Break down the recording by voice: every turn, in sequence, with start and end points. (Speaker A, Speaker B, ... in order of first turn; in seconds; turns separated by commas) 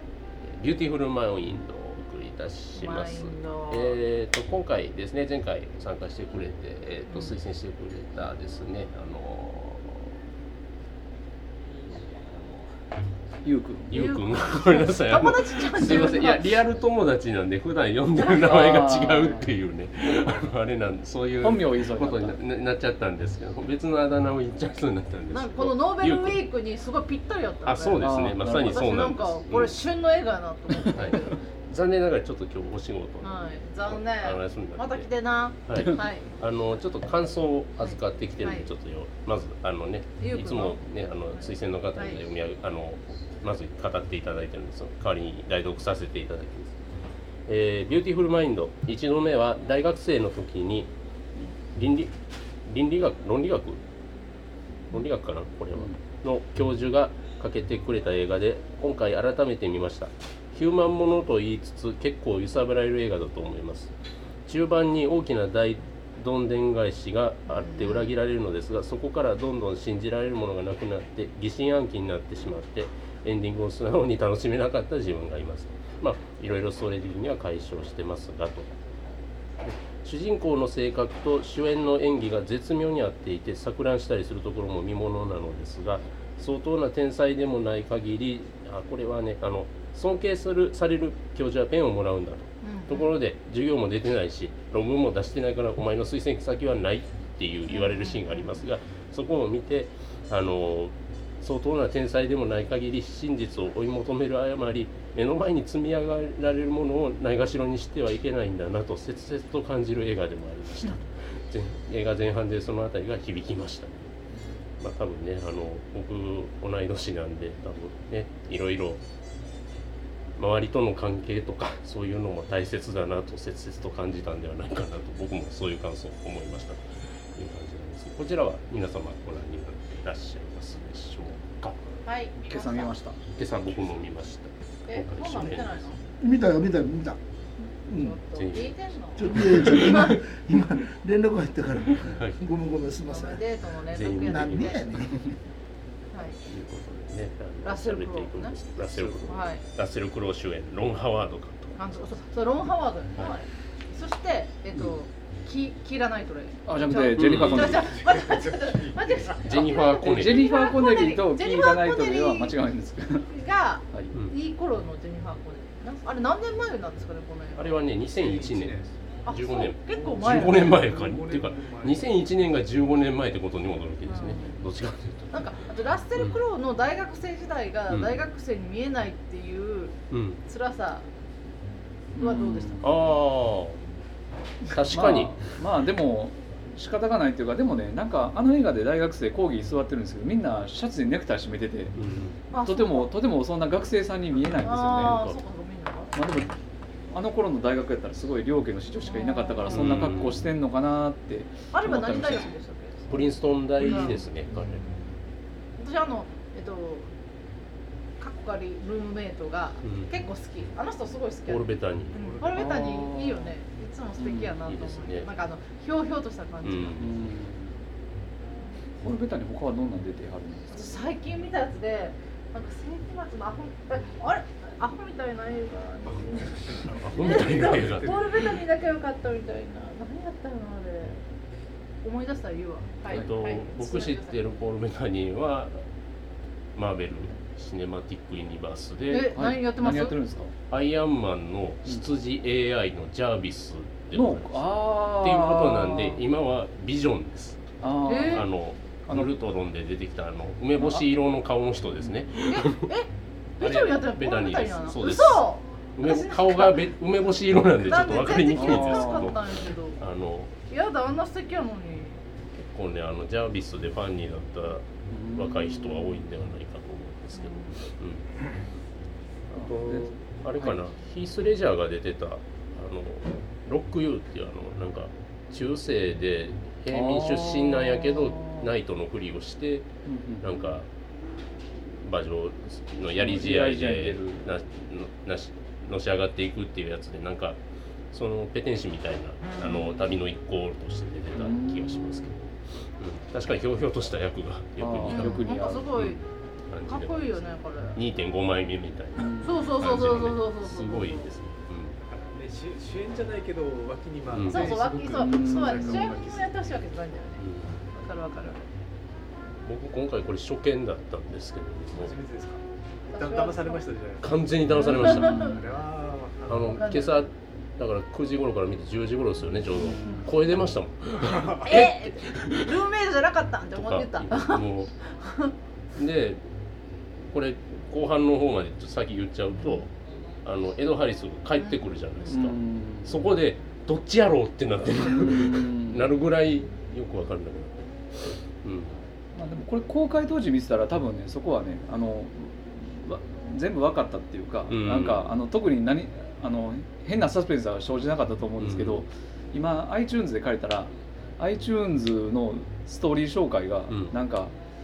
Speaker A: 0.5-10.2, Speaker B: 2.8-4.0, Speaker A: 11.8-12.6, Speaker C: 13.4-14.0, Speaker A: 13.9-26.4, Speaker B: 13.9-16.5, Speaker C: 18.2-19.5, Speaker C: 21.4-22.4, Speaker B: 25.3-31.4, Speaker A: 27.6-29.8, Speaker C: 28.0-28.9, Speaker A: 30.8-35.1, Speaker B: 33.2-36.3, Speaker A: 35.6-46.8, Speaker B: 37.8-38.7, Speaker B: 40.2-42.2, Speaker A: 47.5-50.9, Speaker A: 51.7-52.1, Speaker A: 52.6-53.8, Speaker A: 54.9-63.9, Speaker A: 64.5-78.7, Speaker B: 67.5-68.1, Speaker A: 79.6-114.1, Speaker B: 92.6-93.1, Speaker B: 97.7-98.5, Speaker A: 114.8-119.0, Speaker A: 120.3-131.8, Speaker B: 132.0-132.9, Speaker C: 132.4-133.2, Speaker A: 133.3-135.9, Speaker B: 134.9-136.0, Speaker D: 136.2-137.2, Speaker B: 137.8-140.2, Speaker D: 137.9-138.2, Speaker A: 138.3-138.8, Speaker D: 139.2-143.4, Speaker A: 139.3-140.1, Speaker A: 141.9-142.4, Speaker B: 143.1-144.8, Speaker A: 143.9-145.0, Speaker D: 144.2-145.3, Speaker B: 146.1-146.4, Speaker A: 146.4-151.8, Speaker B: 147.6-148.5, Speaker B: 149.2-149.6, Speaker B: 151.8-162.5, Speaker C: 156.7-157.8, Speaker A: 157.1-157.9, Speaker E: 157.8-159.4, Speaker A: 159.4-160.5, Speaker C: 160.0-163.3, Speaker B: 163.3-167.8, Speaker A: 167.5-175.5, Speaker E: 168.1-168.9, Speaker B: 169.2-170.8, Speaker E: 169.9-172.1, Speaker B: 174.1-174.6, Speaker B: 175.3-181.1, Speaker A: 176.1-176.4, Speaker A: 177.9-178.3, Speaker A: 180.1-180.4, Speaker C: 182.1-183.0, Speaker B: 182.2-183.1, Speaker A: 182.8-183.8, Speaker A: 184.6-185.4, Speaker C: 184.9-191.9, Speaker A: 191.9-192.4, Speaker B: 192.5-193.1, Speaker C: 192.6-195.2, Speaker B: 194.6-196.1, Speaker A: 194.9-195.4, Speaker C: 196.1-196.5, Speaker C: 197.1-202.5, Speaker B: 199.1-200.1, Speaker A: 199.7-200.5, Speaker B: 201.7-203.3, Speaker A: 203.1-204.9, Speaker B: 203.8-204.2, Speaker B: 205.8-207.1, Speaker B: 208.2-217.0, Speaker A: 209.8-210.1, Speaker A: 211.5-212.2, Speaker E: 212.2-212.7, Speaker C: 212.5-213.5, Speaker C: 214.2-214.5, Speaker A: 214.4-215.3, Speaker A: 216.6-217.1, Speaker C: 217.0-217.7, Speaker C: 219.0-220.9, Speaker B: 220.7-231.2, Speaker A: 226.6-228.6, Speaker B: 232.0-234.4, Speaker A: 233.1-235.8, Speaker A: 236.7-239.3, Speaker B: 239.1-240.2, Speaker C: 239.3-240.5, Speaker A: 240.7-247.6, Speaker C: 244.1-246.2, Speaker C: 247.8-248.5, Speaker B: 248.1-248.4, Speaker A: 248.3-252.8, Speaker C: 250.8-251.1, Speaker B: 252.5-253.1, Speaker B: 253.6-256.9, Speaker A: 253.6-260.5, Speaker B: 257.8-260.0, Speaker C: 258.5-259.3, Speaker B: 260.7-262.2, Speaker A: 262.6-264.8, Speaker C: 265.1-266.3, Speaker A: 265.3-268.2, Speaker B: 267.4-267.7, Speaker A: 269.5-279.9, Speaker C: 269.5-270.8, Speaker C: 276.9-278.6, Speaker C: 280.1-280.5, Speaker A: 280.4-280.9, Speaker A: 281.8-287.6, Speaker C: 283.2-284.4, Speaker A: 288.1-292.5, Speaker C: 291.4-292.3, Speaker A: 293.0-302.0, Speaker C: 294.8-295.9, Speaker B: 295.1-296.2, Speaker B: 296.9-298.0, Speaker C: 299.2-299.7, Speaker B: 299.4-301.3, Speaker E: 302.0-306.5, Speaker A: 304.3-304.8, Speaker B: 304.5-307.4, Speaker C: 305.1-306.2, Speaker A: 307.4-307.8, Speaker B: 308.0-308.6, Speaker A: 309.6-312.2, Speaker E: 311.9-314.6, Speaker B: 313.1-313.8, Speaker A: 314.2-315.6, Speaker B: 314.7-315.6, Speaker E: 315.4-316.7, Speaker A: 316.5-322.8, Speaker B: 316.7-317.2, Speaker C: 319.7-320.3, Speaker E: 321.3-321.7, Speaker B: 321.6-325.5, Speaker A: 323.7-324.9, Speaker A: 325.9-326.4, Speaker A: 327.3-329.9, Speaker A: 330.4-339.0, Speaker B: 331.6-331.8, Speaker C: 332.2-333.3, Speaker C: 335.1-336.1, Speaker C: 339.4-354.6, Speaker A: 344.7-345.3, Speaker A: 348.6-349.0, Speaker A: 353.9-354.1